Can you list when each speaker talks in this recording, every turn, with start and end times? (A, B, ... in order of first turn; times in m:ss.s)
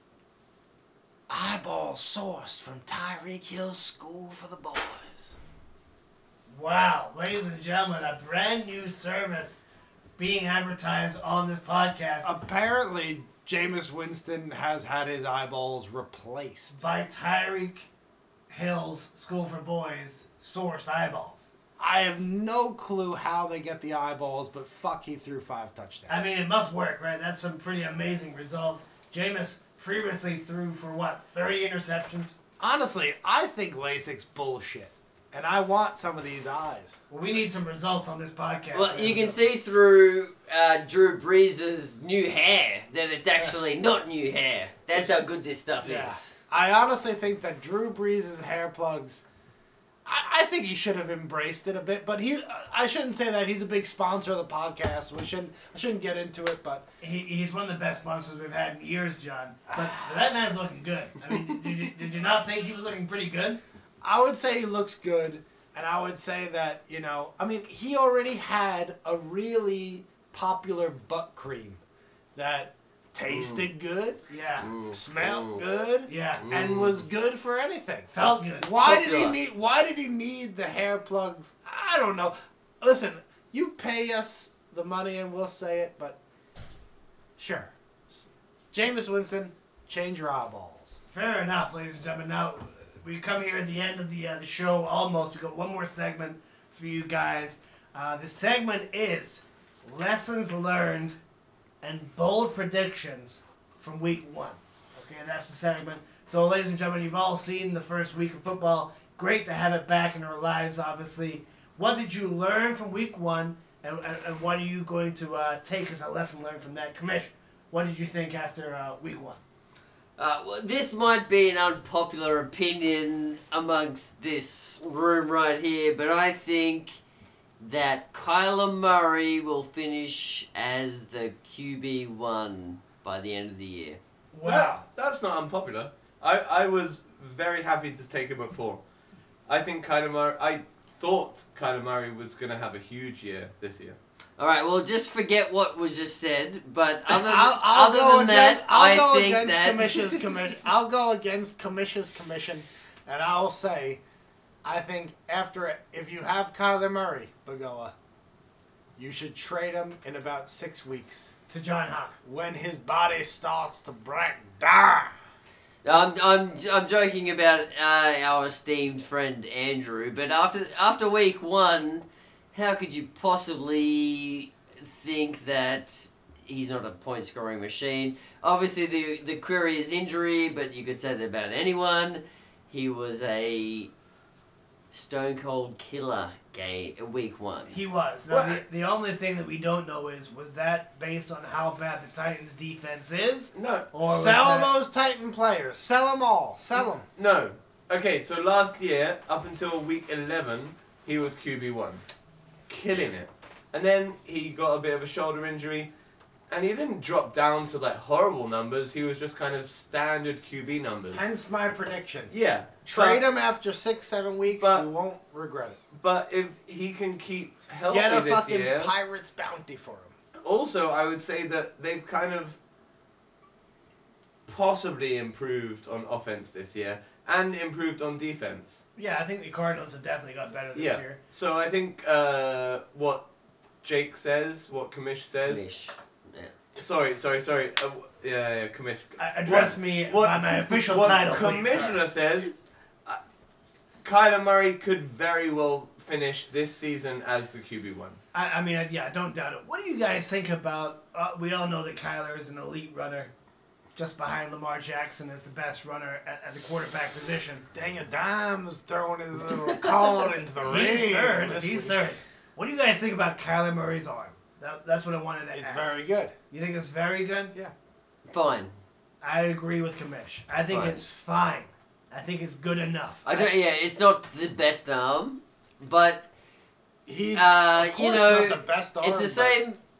0:01.3-0:05.4 A
0:06.5-0:09.6 B
0:10.2-0:12.3 B
0:12.2-0:16.8 A
0:16.7-0:17.9 B
0:18.5-0:21.5 B
0:21.8-0:26.3 A
0:26.1-0:32.4 B
0:32.6-0:37.0 A
0:37.1-0:39.4 B
0:38.7-0:46.4 C
0:45.8-0:49.2 A
0:50.0-0:56.8 A
0:57.0-1:03.6 B
0:59.8-1:00.1 A
1:04.0-1:11.8 A
1:12.3-1:14.2 A
1:13.3-1:13.7 C
1:14.3-1:14.7 B
1:14.6-1:15.6 C
1:14.9-1:26.2 A
1:16.1-1:16.4 B
1:16.4-1:17.0 C
1:18.1-1:18.7 B
1:18.8-1:19.4 C
1:27.4-1:31.0 A
1:31.1-1:41.2 B
1:41.8-1:59.4 B
2:00.2-2:07.0 C
2:07.6-2:14.0 C
2:14.3-2:14.8 B
2:14.4-2:18.8 D
2:19.5-2:24.0 D
2:24.4-2:30.3 C
2:27.1-2:34.0 A
2:34.6-2:37.9 A
2:39.0-2:41.3 A
2:41.5-2:42.2 B
2:42.2-2:45.1 A
2:45.8-3:03.9 C
3:04.9-3:07.8 C
3:07.7-3:14.7 B
3:08.3-3:08.6 D
3:13.5-3:13.9 D
3:14.0-3:17.0 A
3:17.2-3:22.0 D
3:22.7-3:25.9 D
3:26.5-3:31.2 D
3:31.1-3:32.3 A
3:32.3-3:33.2 D
3:32.8-3:35.8 A
3:34.5-3:34.8 D
3:35.9-3:38.9 D
3:37.9-3:40.1 A
3:40.4-3:42.6 D
3:44.5-3:48.8 D
3:49.0-3:51.2 B
3:50.7-3:53.2 D
3:53.8-3:55.6 D
3:55.4-3:56.5 C
3:56.8-4:02.5 D
3:59.2-4:02.0 B
4:04.0-4:08.2 D
4:08.3-4:13.3 B
4:13.9-4:17.6 B
4:17.7-4:22.0 A
4:20.6-4:26.0 B
4:25.5-4:26.3 A
4:26.5-4:27.5 B
4:28.3-4:28.7 C
4:29.2-4:33.5 B
4:30.7-4:31.0 C
4:33.2-4:36.3 C
4:37.0-4:39.6 A
4:37.3-4:39.8 C